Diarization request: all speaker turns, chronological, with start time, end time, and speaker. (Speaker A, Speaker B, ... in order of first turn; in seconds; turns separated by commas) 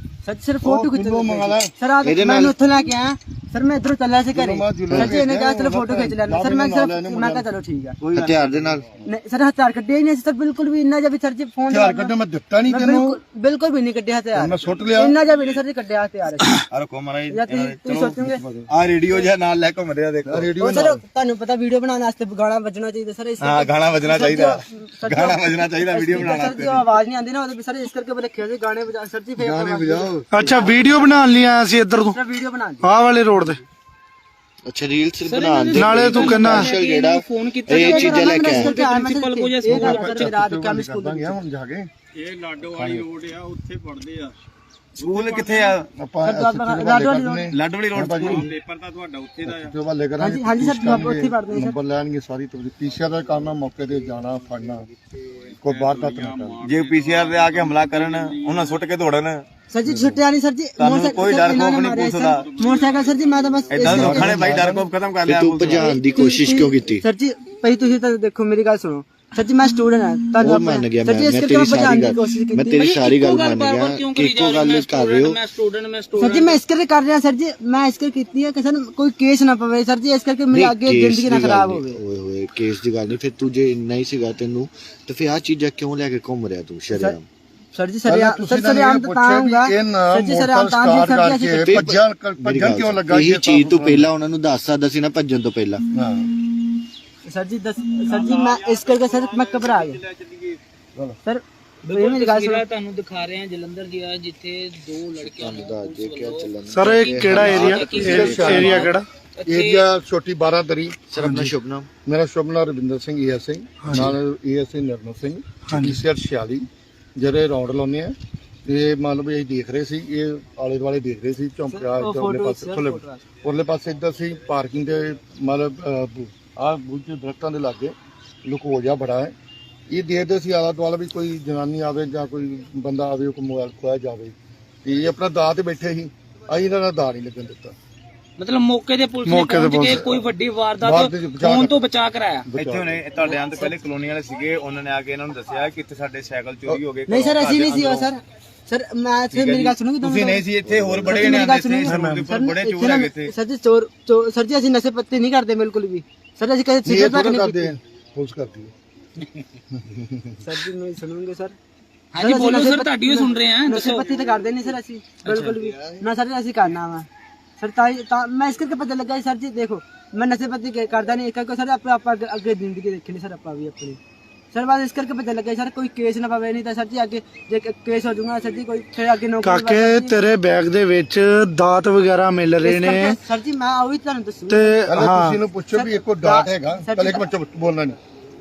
Speaker A: 0.2-8.0, Speaker B: 0.6-1.7, Speaker C: 2.0-2.6, Speaker B: 4.3-7.5, Speaker C: 4.9-5.2, Speaker D: 8.0-8.8, Speaker C: 8.1-8.8, Speaker A: 9.0-12.1, Speaker B: 11.7-13.2, Speaker A: 12.7-16.6, Speaker B: 14.3-15.2, Speaker D: 16.6-20.5, Speaker A: 17.3-18.4, Speaker B: 18.2-18.7, Speaker B: 20.2-21.0, Speaker A: 20.6-30.1, Speaker D: 23.4-26.8, Speaker B: 29.4-30.5, Speaker E: 30.3-32.2, Speaker A: 32.0-32.9, Speaker E: 32.8-33.6, Speaker C: 34.6-38.7, Speaker F: 35.2-40.3, Speaker E: 35.7-36.7, Speaker A: 37.7-41.4, Speaker B: 39.7-41.9, Speaker G: 42.1-44.3, Speaker D: 42.8-43.0, Speaker D: 45.0-45.9, Speaker G: 45.0-45.5, Speaker B: 45.9-48.5, Speaker A: 46.2-47.5, Speaker D: 47.5-48.5, Speaker G: 48.2-49.7, Speaker B: 49.4-54.9, Speaker A: 50.2-51.7, Speaker B: 55.6-56.6, Speaker G: 55.6-58.6, Speaker D: 56.6-59.5, Speaker A: 59.7-64.9, Speaker D: 60.8-62.5, Speaker G: 62.6-63.2, Speaker D: 63.7-66.1, Speaker C: 63.8-67.0, Speaker A: 65.7-73.0, Speaker C: 70.4-75.4, Speaker F: 72.8-76.6, Speaker A: 76.2-82.0, Speaker C: 80.5-87.2, Speaker A: 86.9-87.2, Speaker A: 87.7-91.7, Speaker B: 88.0-94.1, Speaker C: 91.6-95.8, Speaker B: 95.9-96.3, Speaker A: 97.2-100.0, Speaker G: 98.5-99.6, Speaker A: 101.2-102.6, Speaker F: 101.8-109.8, Speaker C: 105.2-108.7, Speaker E: 106.7-109.0, Speaker B: 107.5-108.9, Speaker B: 109.5-111.0, Speaker C: 111.1-111.9, Speaker E: 111.2-111.6, Speaker B: 112.0-129.3, Speaker E: 113.8-114.2, Speaker E: 115.7-116.0, Speaker A: 121.7-123.2, Speaker B: 129.9-134.3, Speaker B: 134.8-137.7, Speaker F: 138.4-142.5, Speaker E: 139.2-140.1, Speaker B: 139.9-140.2, Speaker B: 140.8-141.8, Speaker B: 142.5-143.0, Speaker D: 142.5-148.1, Speaker A: 143.2-143.7, Speaker A: 147.1-150.4, Speaker D: 149.3-153.3, Speaker A: 151.0-157.7, Speaker E: 151.8-152.2, Speaker B: 156.8-158.7, Speaker B: 159.7-160.3, Speaker A: 160.4-161.5, Speaker F: 162.1-164.1, Speaker A: 162.2-167.1, Speaker F: 165.2-165.5, Speaker A: 167.6-174.0, Speaker A: 174.5-180.1, Speaker E: 179.4-183.2, Speaker A: 182.6-184.8, Speaker E: 184.5-185.4, Speaker B: 184.9-188.0, Speaker A: 185.7-187.2